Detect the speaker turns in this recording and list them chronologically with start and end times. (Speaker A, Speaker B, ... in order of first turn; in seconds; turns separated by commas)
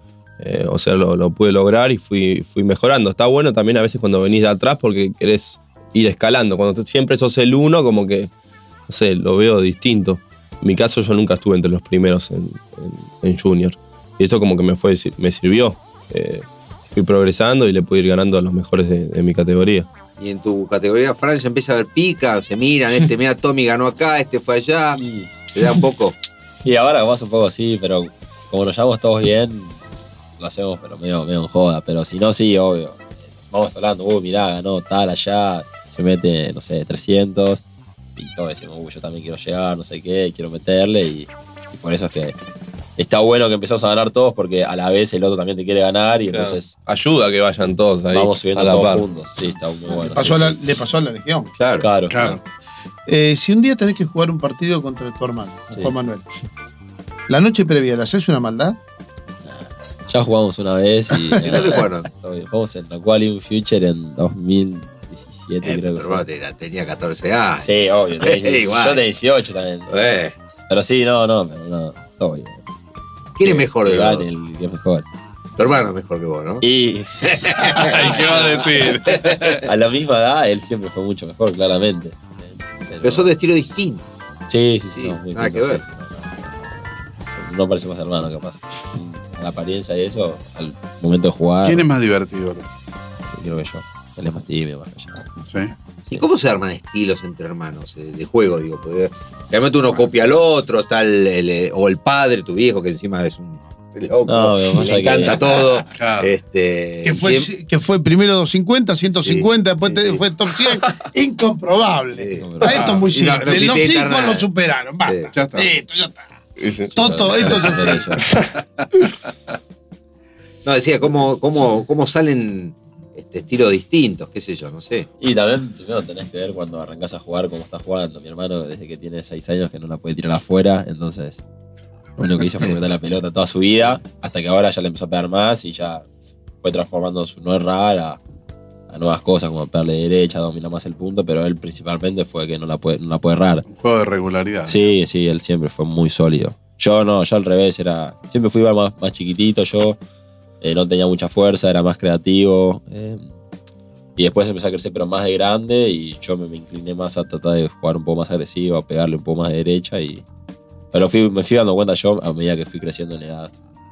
Speaker A: 0.4-8.3, Speaker A: 8.9-19.9, Speaker B: 20.2-25.0, Speaker C: 24.9-25.3, Speaker B: 25.5-26.2, Speaker C: 26.6-29.8, Speaker C: 30.4-37.6, Speaker C: 38.2-42.4, Speaker C: 43.0-46.8, Speaker A: 46.3-49.0, Speaker C: 48.1-50.6, Speaker D: 49.9-51.5, Speaker B: 51.6-51.9, Speaker C: 51.8-52.4, Speaker E: 52.1-52.4, Speaker D: 53.1-56.3, Speaker D: 57.3-58.8, Speaker C: 60.1-66.2, Speaker B: 61.4-62.1, Speaker B: 65.6-67.7, Speaker C: 67.6-69.9, Speaker B: 68.2-69.1, Speaker B: 69.9-70.3, Speaker C: 70.7-72.6, Speaker B: 73.4-74.3, Speaker C: 73.4-75.1, Speaker B: 75.6-76.6, Speaker C: 76.6-78.1, Speaker B: 77.2-78.6, Speaker E: 77.7-79.7, Speaker B: 79.1-79.5, Speaker C: 79.6-83.3, Speaker B: 83.0-84.1, Speaker C: 84.5-91.9, Speaker B: 84.9-85.8, Speaker E: 91.6-92.7, Speaker C: 93.3-95.4, Speaker E: 95.5-95.7, Speaker B: 96.1-107.5, Speaker C: 104.3-105.4, Speaker E: 105.9-106.3, Speaker D: 107.0-116.3, Speaker B: 109.1-110.2, Speaker C: 109.8-110.1, Speaker B: 112.1-114.5, Speaker C: 112.3-113.0, Speaker E: 112.7-113.0, Speaker B: 115.0-115.3, Speaker E: 115.3-115.7, Speaker A: 116.6-116.9, Speaker D: 117.0-118.3, Speaker C: 117.0-118.3, Speaker B: 120.7-125.1, Speaker C: 125.2-131.4, Speaker C: 132.2-136.1, Speaker C: 136.6-138.2, Speaker C: 138.9-143.7, Speaker E: 143.7-144.9, Speaker C: 144.7-150.0, Speaker C: 150.6-153.3, Speaker C: 154.2-160.2, Speaker C: 160.9-163.5